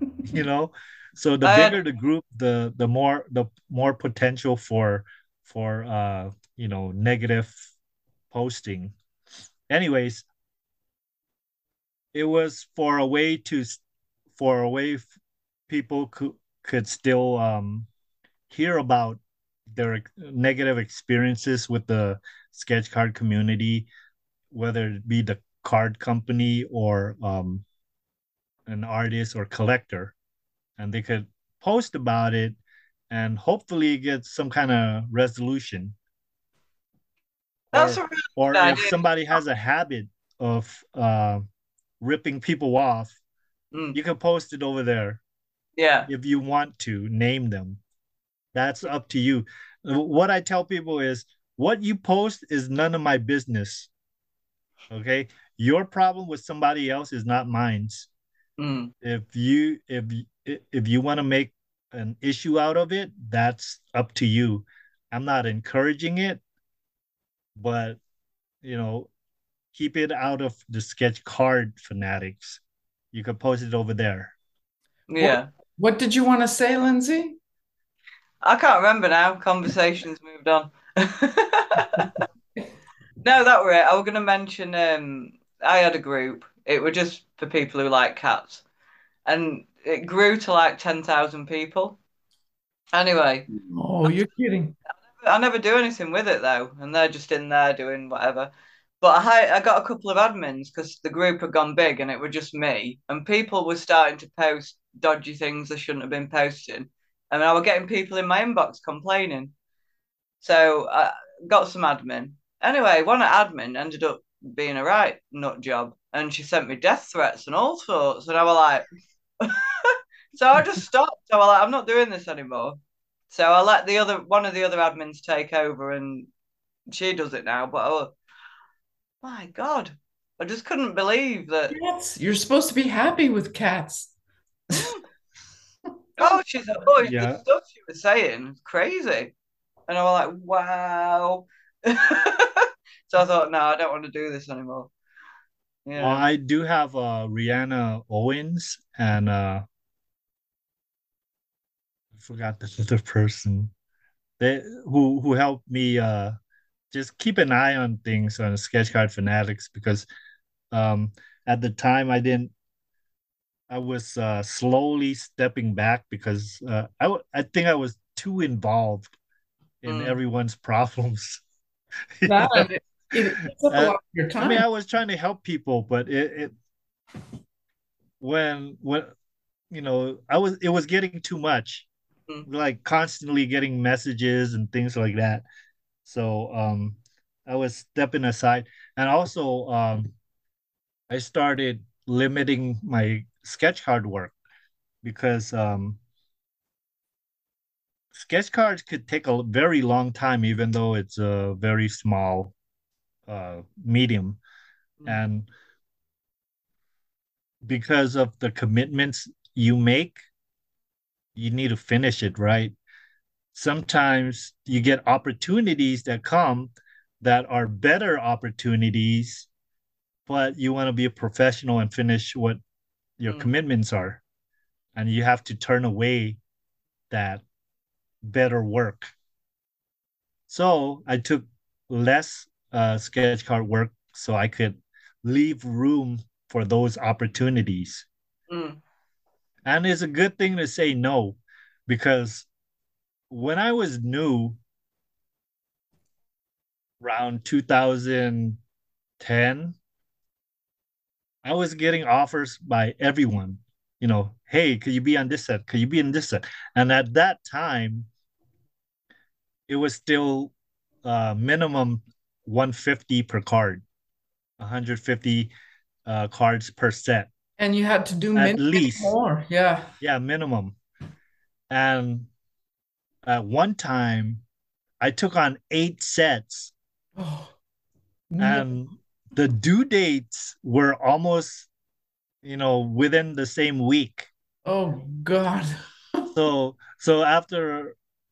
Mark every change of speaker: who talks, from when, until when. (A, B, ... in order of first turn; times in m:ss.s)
0:00.3-0:07.7 A
0:01.4-0:01.8 B
0:08.3-0:08.9 A
0:09.7-0:10.2 A
0:12.1-0:13.8 A
0:14.3-0:15.1 A
0:15.7-0:17.9 A
0:18.5-0:19.2 A
0:19.7-0:23.9 A
0:24.5-0:27.6 A
0:28.7-0:30.1 A
0:30.8-0:32.6 A
0:33.1-0:36.0 A
0:37.7-0:41.4 A
0:37.7-0:39.0 B
0:42.0-0:43.2 A
0:43.9-0:45.2 A
0:45.8-0:46.1 B
0:46.1-0:47.8 A
0:48.5-0:53.9 A
0:54.9-0:58.1 A
0:58.6-0:58.9 B
0:59.0-1:06.4 A
1:07.6-1:08.0 A
1:08.6-1:09.1 A
1:09.7-1:12.6 A
1:13.1-1:14.3 A
1:15.1-1:15.5 B
1:15.2-1:17.4 C
1:18.4-1:22.2 B
1:23.2-1:28.6 B
1:29.2-1:32.0 B
1:32.9-1:33.5 B
1:33.5-1:34.7 C
1:35.2-1:49.5 B
1:50.4-1:58.8 B
1:59.4-2:02.8 B
2:03.3-2:06.3 B
2:06.9-2:08.1 B
2:09.2-2:11.7 B
2:11.7-2:14.1 C
2:16.2-2:19.3 B
2:17.0-2:17.4 A
2:19.9-2:24.9 B
2:25.8-2:26.2 B
2:26.0-2:29.6 A
2:32.1-2:33.7 A
2:34.4-2:36.3 A
2:36.9-2:40.1 A
2:40.7-2:42.5 A
2:43.7-2:49.1 A
2:49.8-2:51.4 A
2:49.8-2:50.2 B
2:52.2-2:52.7 A
2:52.2-2:54.6 C
2:53.4-2:56.5 A
2:58.2-2:59.1 A
2:59.7-3:01.9 A
3:02.5-3:05.4 A
3:06.0-3:10.1 A
3:11.1-3:14.3 A
3:15.0-3:16.0 A
3:18.1-3:22.5 A
3:23.3-3:24.4 A
3:25.0-3:25.5 A
3:27.6-3:30.2 A
3:31.4-3:32.8 A
3:33.5-3:39.5 A
3:40.3-3:42.6 A
3:43.2-3:44.2 A
3:45.0-3:46.4 A
3:47.1-3:47.4 A
3:48.2-3:49.1 A
3:50.5-3:58.1 A
3:58.5-3:58.8 B
3:59.6-4:02.5 A
4:03.3-4:04.6 A
4:07.0-4:08.6 A
4:09.2-4:09.8 A
4:11.4-4:18.1 A
4:19.7-4:20.5 A
4:21.0-4:23.8 A
4:24.6-4:25.5 A
4:26.0-4:27.3 A
4:27.6-4:29.9 C
4:28.3-4:29.1 A
4:30.0-4:30.8 A
4:31.7-4:32.3 A
4:33.2-4:34.4 A
4:35.0-4:36.7 A
4:37.2-4:37.5 C
4:38.3-4:38.7 C
4:38.4-4:41.7 A
4:42.4-4:44.3 A
4:44.6-4:45.7 C
4:46.3-4:48.0 A